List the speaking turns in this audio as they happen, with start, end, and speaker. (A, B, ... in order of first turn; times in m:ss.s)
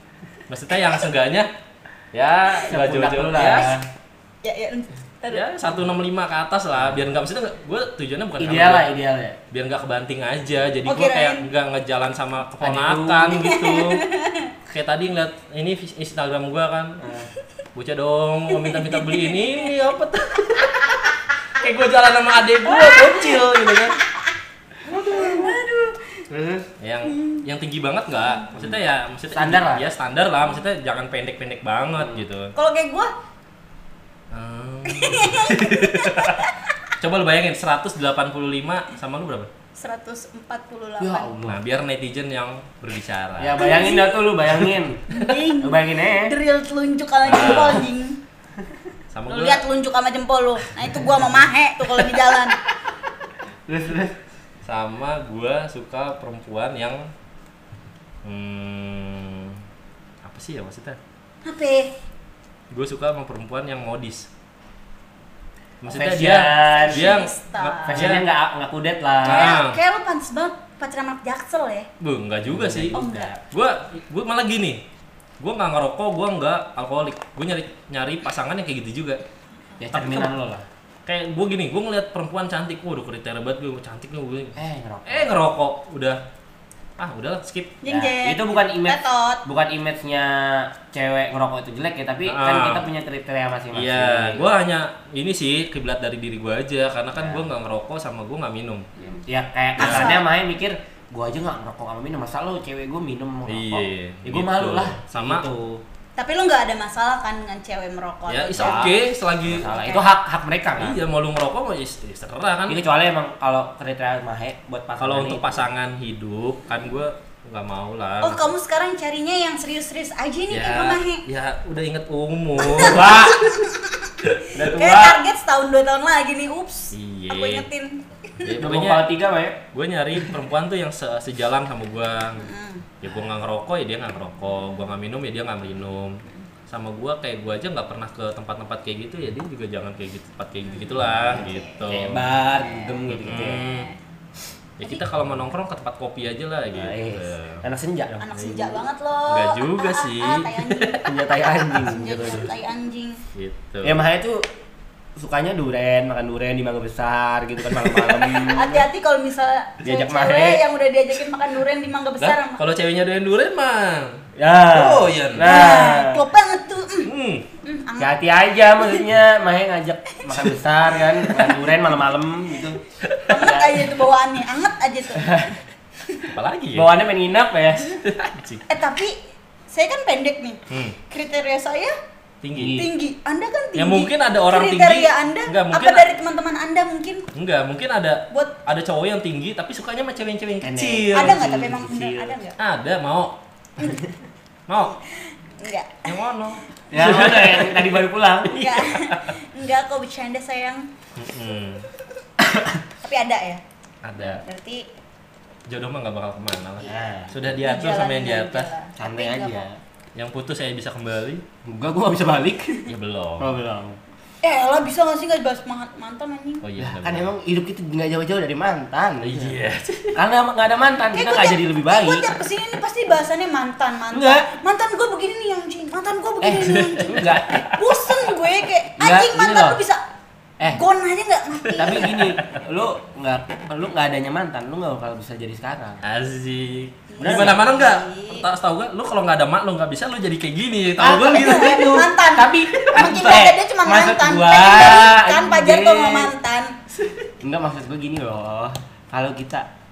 0:00.5-0:01.5 A
0:02.1-0:03.7 A
0:02.6-0:03.9 B
0:04.4-0:05.4 C
0:05.3-0:08.8 A
0:08.4-0:09.4 B
0:09.5-0:14.0 A
0:10.8-0:11.4 C
0:12.6-0:13.4 B
0:13.3-0:14.5 C
0:14.7-0:17.0 A
0:17.0-0:17.3 B
0:17.7-0:24.0 A
0:18.5-0:19.5 C
0:22.6-0:23.8 C
0:24.8-0:25.6 B
0:25.0-0:26.2 C
0:26.3-0:26.7 B
0:26.8-0:32.6 A
0:27.1-0:27.4 C
0:29.3-0:29.9 B
0:32.0-0:32.2 B
0:32.6-0:33.1 C
0:34.3-0:36.4 A
0:34.8-0:36.8 C
0:37.0-0:39.5 A
0:39.8-0:41.3 C
0:41.0-0:41.6 B
0:41.4-0:44.0 A
0:43.4-0:46.4 B
0:43.6-0:44.2 C
0:45.1-0:48.2 C
0:47.2-0:47.8 A
0:49.1-0:49.6 A
0:49.3-0:52.6 C
0:53.7-0:54.2 B
0:54.6-0:57.1 A
0:58.2-0:59.6 A
1:00.2-1:01.0 A
1:01.4-1:01.9 C
1:02.7-1:04.3 A
1:05.8-1:08.3 A
1:05.9-1:07.2 B
1:06.6-1:08.1 C
1:07.9-1:09.6 B
1:09.2-1:09.8 A
1:09.2-1:11.9 C
1:12.0-1:14.8 A
1:12.4-1:13.4 B
1:12.9-1:13.3 C
1:15.4-1:19.2 A
1:19.8-1:20.6 B
1:19.9-1:20.3 A
1:21.1-1:26.2 A
1:24.6-1:25.3 B
1:27.0-1:27.8 A
1:27.8-1:29.4 C
1:27.8-1:34.5 B
1:32.2-1:32.9 A
1:33.7-1:38.9 A
1:37.2-1:37.5 B
1:39.0-1:39.2 C
1:39.2-1:45.8 B
1:39.8-1:40.2 C
1:39.8-1:40.1 A
1:43.4-1:45.4 A
1:46.2-1:49.0 C
1:48.3-1:49.7 A
1:48.6-1:51.0 B
1:49.6-1:50.1 C
1:50.8-1:52.8 A
1:52.7-1:55.6 B
1:55.0-1:58.5 A
1:58.2-2:01.2 C
2:00.5-2:03.2 A
2:02.6-2:08.5 C
2:02.7-2:03.5 B
2:04.5-2:05.2 B
2:06.9-2:07.6 A
2:08.4-2:09.1 A
2:08.5-2:09.6 B
2:09.7-2:12.5 A
2:12.4-2:12.9 C
2:13.0-2:22.3 A
2:20.6-2:21.9 C
2:21.3-2:23.6 B
2:22.5-2:24.0 C
2:23.1-2:23.9 A
2:24.8-2:27.6 A
2:26.7-2:28.7 B
2:28.2-2:33.2 C
2:28.4-2:28.6 A
2:29.3-2:31.0 A
2:31.0-2:32.5 B
2:33.4-2:34.0 A
2:33.8-2:34.4 B
2:35.2-2:38.9 B
2:37.7-2:38.3 A
2:38.2-2:42.6 C
2:39.8-2:40.6 B
2:42.2-2:45.7 A
2:44.4-2:46.2 B
2:45.4-2:47.1 C
2:47.0-2:47.4 A
2:47.6-2:48.2 C
2:48.0-2:52.8 B
2:48.8-2:49.0 C
2:50.2-2:50.4 C
2:51.2-2:51.7 C
2:53.3-2:55.5 C
2:53.4-2:53.9 B
2:55.2-2:55.5 B
2:56.2-2:56.9 A
2:56.7-2:58.0 B
2:58.0-2:58.6 A
2:58.7-2:59.2 C
2:59.7-3:01.9 C
3:00.7-3:01.0 A
3:02.4-3:02.8 A
3:02.6-3:02.9 B
3:02.7-3:07.3 C
3:03.8-3:06.1 A
3:07.3-3:11.4 A
3:08.3-3:08.6 C
3:10.6-3:12.4 B
3:11.1-3:12.6 C
3:12.6-3:13.4 A
3:14.7-3:14.9 A
3:14.9-3:16.3 C
3:16.1-3:18.0 A
3:16.9-3:18.8 B
3:18.5-3:20.9 C
3:18.9-3:19.3 A
3:21.2-3:21.9 A
3:22.4-3:22.8 B
3:23.0-3:23.6 C
3:24.0-3:24.4 A
3:24.2-3:24.8 C
3:25.7-3:28.7 A
3:26.8-3:27.4 B
3:27.5-3:29.7 C
3:29.0-3:29.8 B
3:30.2-3:31.4 A
3:31.6-3:34.0 B
3:32.9-3:33.5 A
3:34.4-3:36.6 C
3:36.6-3:37.3 A
3:36.8-3:39.6 B
3:39.2-3:40.2 A
3:40.1-3:42.3 B
3:41.1-3:50.0 C
3:44.1-3:44.5 B
3:46.4-3:47.7 B
3:46.6-3:47.9 A
3:49.0-3:49.8 B
3:50.6-3:52.2 C
3:51.7-3:56.0 B
3:51.8-3:52.6 A
3:56.0-4:01.9 A
3:57.1-3:58.4 C
3:57.2-3:57.6 B
4:01.0-4:06.3 B
4:01.2-4:06.7 C
4:07.4-4:09.7 B